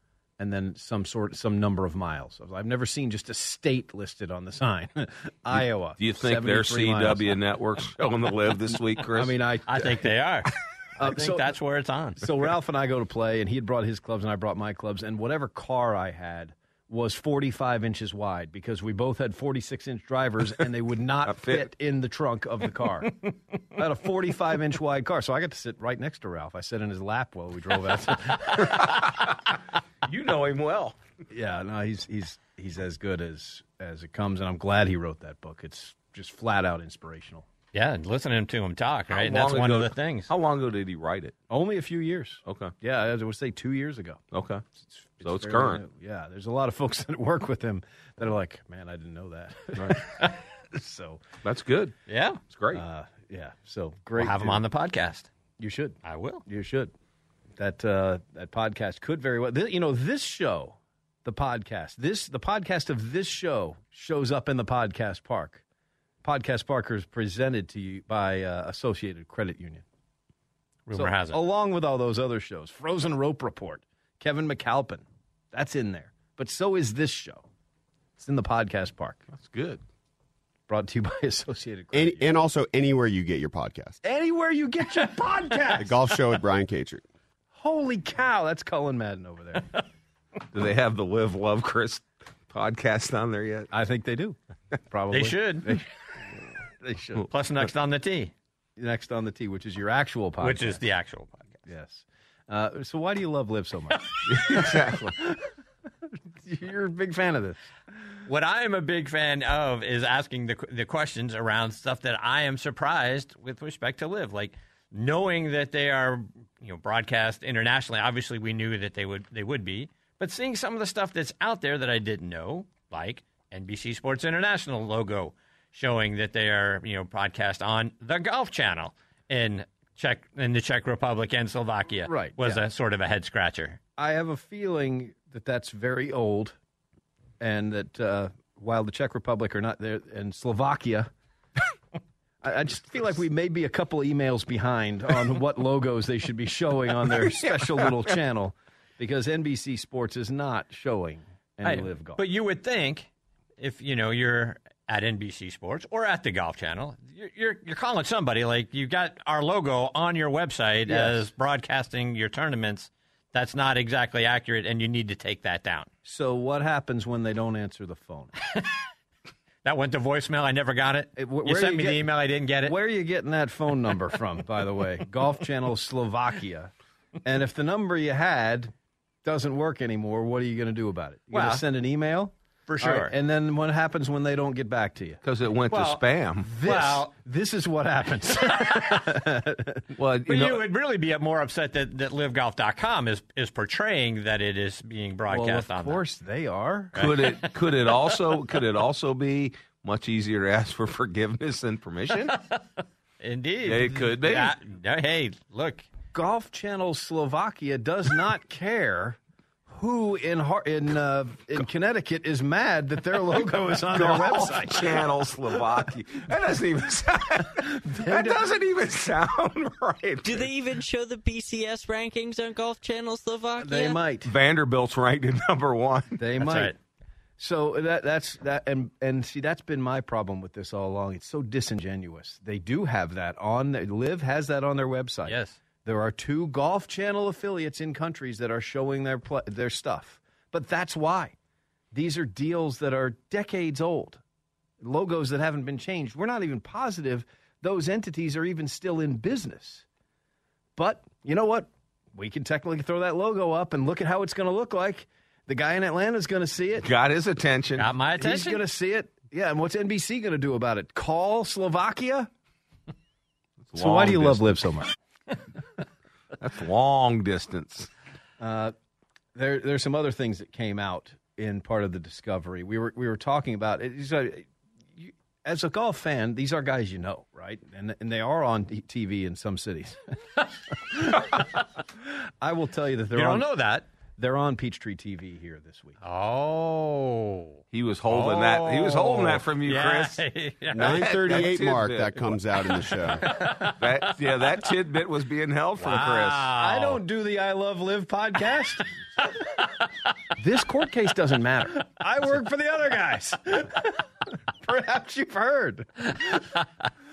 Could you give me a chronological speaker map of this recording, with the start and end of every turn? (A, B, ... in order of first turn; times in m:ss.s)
0:00.4-0:07.4 A
0:06.0-0:09.3 B
0:09.1-0:10.1 A
0:09.7-0:12.2 C
0:11.0-0:11.5 A
0:12.2-0:29.0 A
0:21.3-0:21.6 B
0:28.7-0:29.5 B
0:30.0-0:31.0 B
0:31.3-0:37.5 A
0:37.7-0:40.3 C
0:39.1-0:41.4 B
0:41.5-0:44.2 A
0:42.5-0:42.7 B
0:44.3-0:44.6 B
0:44.8-0:51.2 A
0:45.2-0:45.8 B
0:51.4-0:52.0 B
0:52.1-0:52.4 C
0:52.5-0:52.8 B
0:52.7-0:54.6 A
0:54.2-0:55.3 C
0:55.6-0:56.9 A
0:56.0-0:56.4 C
0:57.6-1:05.6 A
1:06.2-1:09.8 A
1:10.9-1:11.4 C
1:10.9-1:17.5 A
1:18.2-1:19.2 A
1:19.3-1:19.8 B
1:20.7-1:22.4 A
1:21.9-1:24.0 D
1:24.0-1:26.0 A
1:25.8-1:27.0 D
1:27.5-1:29.8 A
1:30.5-1:33.7 B
1:33.7-1:34.4 A
1:34.9-1:37.3 A
1:35.1-1:35.8 C
1:37.3-1:38.3 C
1:38.8-1:40.8 A
1:40.4-1:41.6 C
1:41.7-1:45.5 A
1:44.3-1:45.1 B
1:46.0-1:47.6 A
1:48.3-2:13.8 C
2:12.1-2:12.6 A
2:14.0-2:16.6 A
2:17.4-2:21.1 A
2:22.4-2:32.2 A
2:27.2-2:27.9 B
2:31.6-2:45.9 C
2:40.9-2:41.3 A
2:46.0-2:48.3 A
2:49.6-2:52.8 C
2:51.2-2:52.1 A
2:52.6-2:56.7 A
2:57.2-2:58.7 A
2:59.2-3:05.2 A
3:01.3-3:01.6 C
3:02.7-3:03.1 C
3:05.2-3:06.5 B
3:05.7-3:06.0 C
3:06.4-3:09.9 A
3:06.6-3:07.1 C
3:10.0-3:10.6 B
3:10.3-3:16.0 C
3:15.3-3:17.1 A
3:17.0-3:17.5 C
3:17.0-3:22.3 B
3:23.2-3:25.8 C
3:23.7-3:24.5 B
3:26.1-3:35.1 A
3:33.8-3:40.5 B
3:37.7-3:38.6 A
3:40.2-3:44.0 E
3:43.6-3:44.3 A
3:44.2-3:46.2 B
3:46.2-3:46.8 A
3:46.4-3:46.7 C
3:47.4-4:01.4 A
3:55.3-3:55.6 C
4:01.9-4:04.2 A
4:04.8-4:09.9 A
4:10.8-4:16.9 A
4:16.8-4:17.9 B
4:17.8-4:18.6 C
4:18.2-4:22.3 A
4:23.6-4:24.6 B
4:23.8-4:24.9 A
4:26.4-4:27.9 B
4:28.4-4:28.8 A
4:29.4-4:41.4 A
4:42.0-4:43.5 A
4:43.1-4:43.9 C
4:44.2-4:46.0 A
4:46.0-4:51.1 C
4:47.7-4:50.2 B
4:50.7-4:53.3 D
4:50.8-4:52.4 B
4:53.3-4:53.8 C
4:53.6-4:56.5 B
4:55.8-4:57.0 C
4:56.6-4:58.9 A
5:00.4-5:06.5 A